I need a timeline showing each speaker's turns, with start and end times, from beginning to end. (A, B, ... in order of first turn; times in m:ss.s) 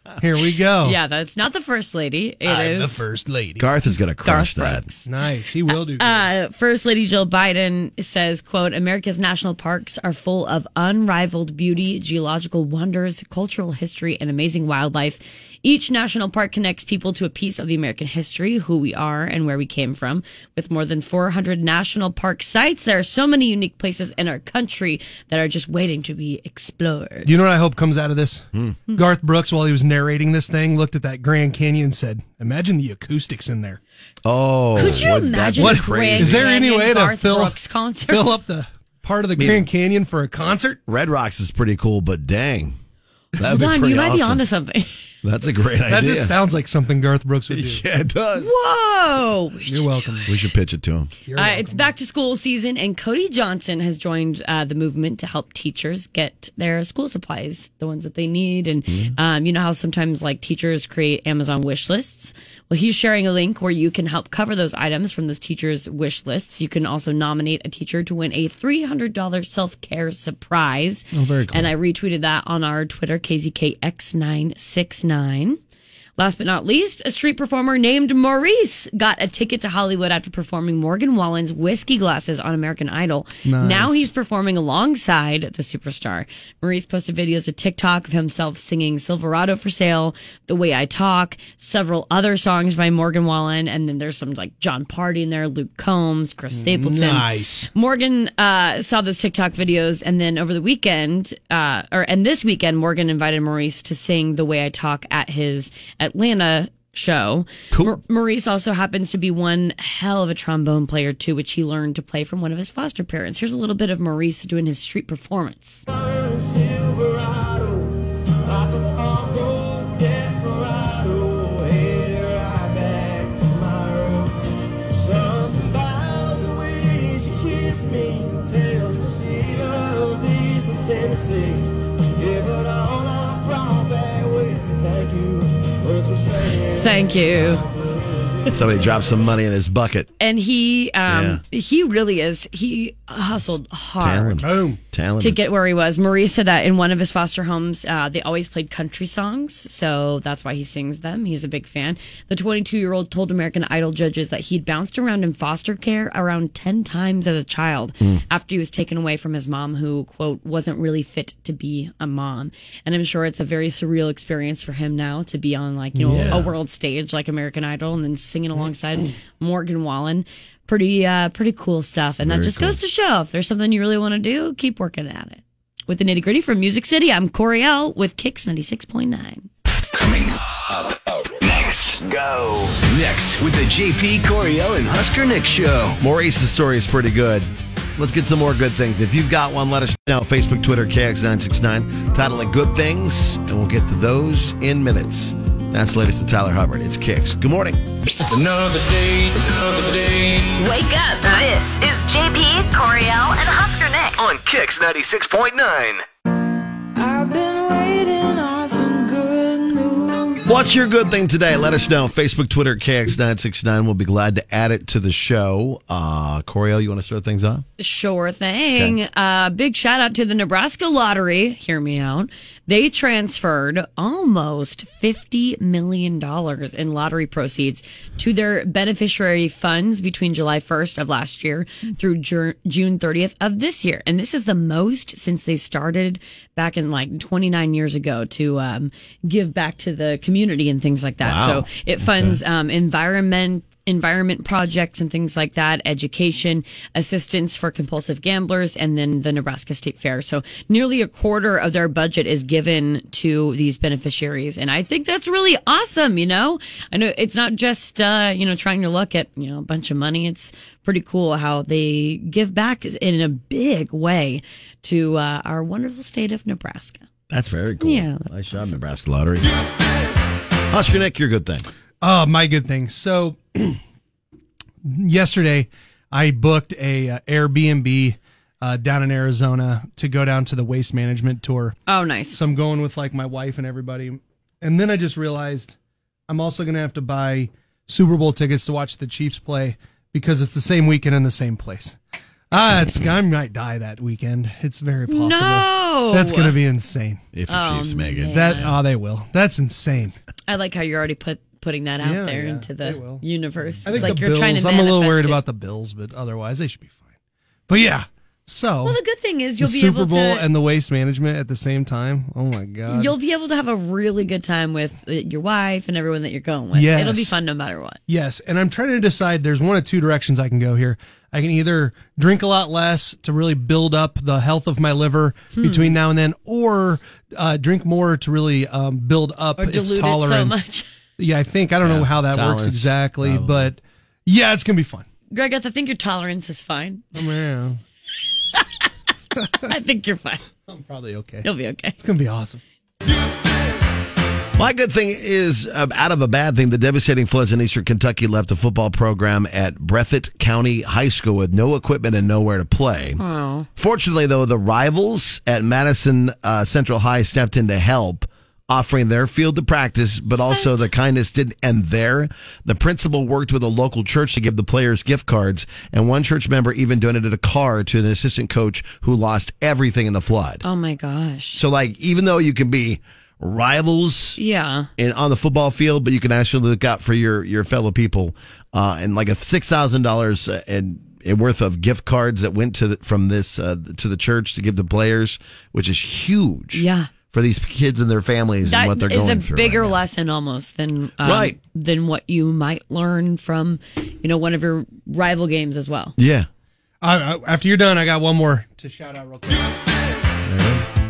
0:00.2-0:01.0 A
0:00.8-0:03.0 B
0:02.4-0:03.7 A
0:03.6-0:04.9 C
0:04.2-0:05.1 B
0:05.1-0:06.2 A
0:05.7-0:27.3 B
0:27.2-0:33.8 A
0:34.2-0:36.5 C
0:34.8-0:38.4 B
0:35.6-0:40.8 A
0:39.4-0:39.7 C
0:40.9-0:42.8 C
0:43.4-0:44.4 C
0:43.4-0:44.9 B
0:45.2-0:46.4 C
0:45.9-0:47.8 A
0:47.5-0:48.5 C
0:48.4-0:50.3 B
0:49.7-0:50.3 A
0:50.3-0:51.1 C
0:51.3-0:51.9 A
0:51.4-1:15.6 B
0:58.9-0:59.1 C
1:11.1-1:11.7 C
1:16.2-1:55.9 B
1:23.4-1:24.1 A
1:36.5-1:37.7 A
1:47.7-1:48.0 C
2:16.6-2:17.7 B
2:17.3-2:17.7 C
2:18.4-2:20.1 C
2:20.2-2:24.5 B
2:21.1-2:21.4 C
2:24.0-2:25.4 C
2:24.4-2:24.8 A
2:25.2-2:59.5 B
2:46.0-2:46.4 A
2:46.1-2:46.5 C
2:52.2-2:52.8 C
3:00.0-3:00.3 D
3:01.3-3:06.0 D
3:06.0-3:17.8 C
3:18.2-3:20.4 E
3:20.6-3:24.2 F
3:24.2-3:26.0 D
3:30.4-3:37.6 C
3:37.8-4:27.0 B
4:01.2-4:02.4 C
4:27.3-4:29.5 C
4:27.8-4:28.8 B
4:30.7-4:31.7 C
4:32.0-4:33.8 A
4:34.8-4:41.8 A
4:41.9-4:42.4 B
4:42.3-4:45.8 A
4:46.3-4:52.0 A
4:52.5-4:57.2 A
4:55.1-4:56.6 B
4:57.3-4:58.6 C
4:57.5-4:58.8 B
4:58.3-5:00.2 A
5:00.5-5:05.4 B
5:02.0-5:03.2 A
5:03.8-5:07.0 A
5:07.7-5:09.0 A
5:08.8-5:10.5 B
5:09.6-5:13.2 A
5:12.9-5:18.0 B
5:16.7-5:17.3 A
5:18.1-5:30.7 A
5:25.6-5:26.0 B
5:29.6-5:30.9 B
5:31.2-5:35.1 A
5:31.8-5:33.7 C
5:35.3-5:37.2 B
5:37.2-5:37.8 A
5:39.6-5:40.4 B
5:40.7-5:41.5 A
5:41.4-5:42.0 B
5:42.0-5:42.6 A
5:44.6-5:53.2 C
5:53.2-5:53.7 B
5:53.8-6:10.6 C
6:00.5-6:00.8 B
6:10.6-6:11.6 B
6:11.6-6:14.4 C
6:14.4-6:14.9 B
6:15.0-6:30.0 C
6:26.7-6:27.1 B
6:28.6-6:36.2 B
6:31.2-6:31.6 C
6:36.2-6:36.5 C
6:37.0-6:39.7 A
6:40.4-6:40.9 C